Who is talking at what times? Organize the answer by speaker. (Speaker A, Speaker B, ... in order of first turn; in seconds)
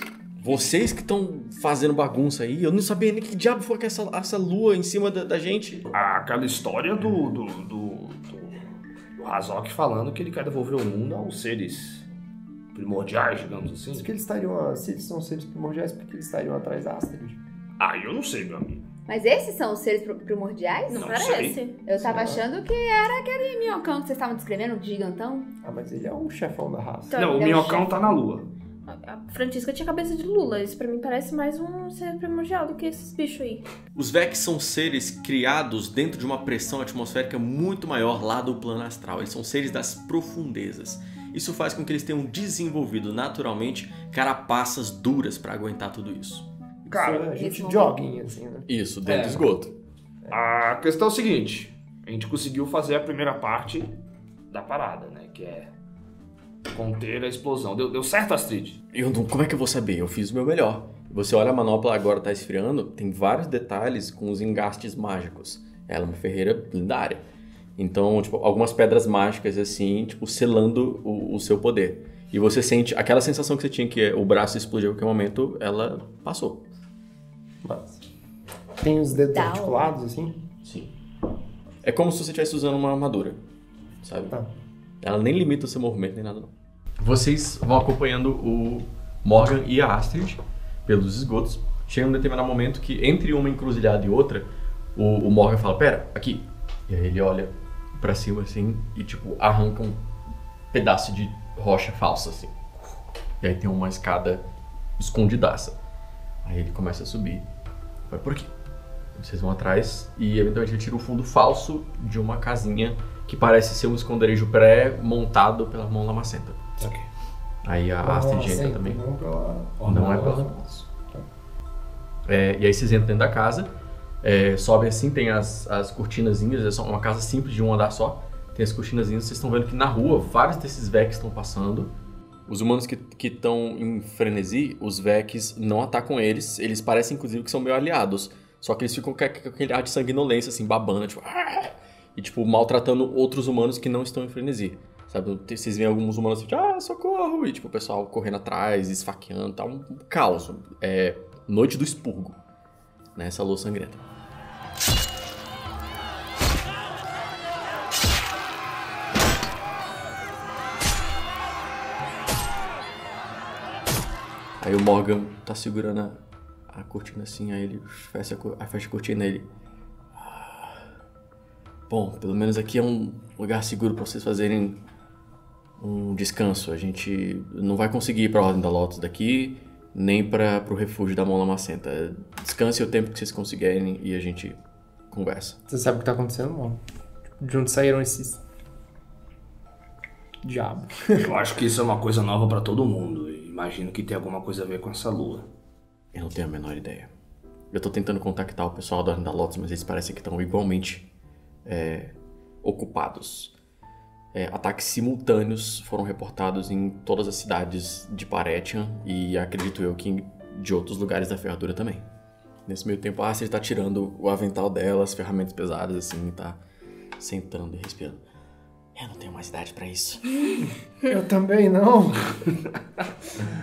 Speaker A: 0.4-5.9, 33.9-46.5, 48.7-49.8, 58.9-67.2, 67.8-76.7, 80.6-80.9, 81.8-83.4, 84.0-84.3, 85.0-100.0, 100.7-102.5, 103.4-104.4, 105.0-105.8, 106.4-107.5, 108.1-108.5, 109.1-116.7, 117.6-119.0, 119.9-120.5, 122.3-123.7, 124.2-131.9, 132.5-152.4, 153.2-154.0, 164.6-169.5, 170.2-170.9, 171.9-174.8, 175.8-184.6, 185.1-185.6, 196.1-197.1, 197.7-201.1, 201.7-203.5, 204.3-212.1, 212.7-216.6, 217.2-218.2, 218.9-220.4
Speaker B: 5.9-8.6, 9.2-12.1, 12.7-14.1, 17.8-18.9, 20.9-21.6, 27.2-28.5, 46.9-47.3, 49.1-49.5, 50.3-54.0, 54.5-55.7, 56.7-58.8, 116.8-117.1, 119.8-120.4, 191.2-195.5
Speaker C: 13.9-17.4, 21.9-22.5, 25.6-27.2, 46.9-48.7, 77.6-78.0, 78.8-80.5, 118.0-121.3, 185.7-186.8, 187.4-188.4, 190.4-191.3, 221.0-222.4
Speaker D: 19.1-21.1, 21.9-25.5, 47.4-48.1, 79.3-79.9
Speaker E: 20.9-21.8, 27.1-28.0, 28.9-33.6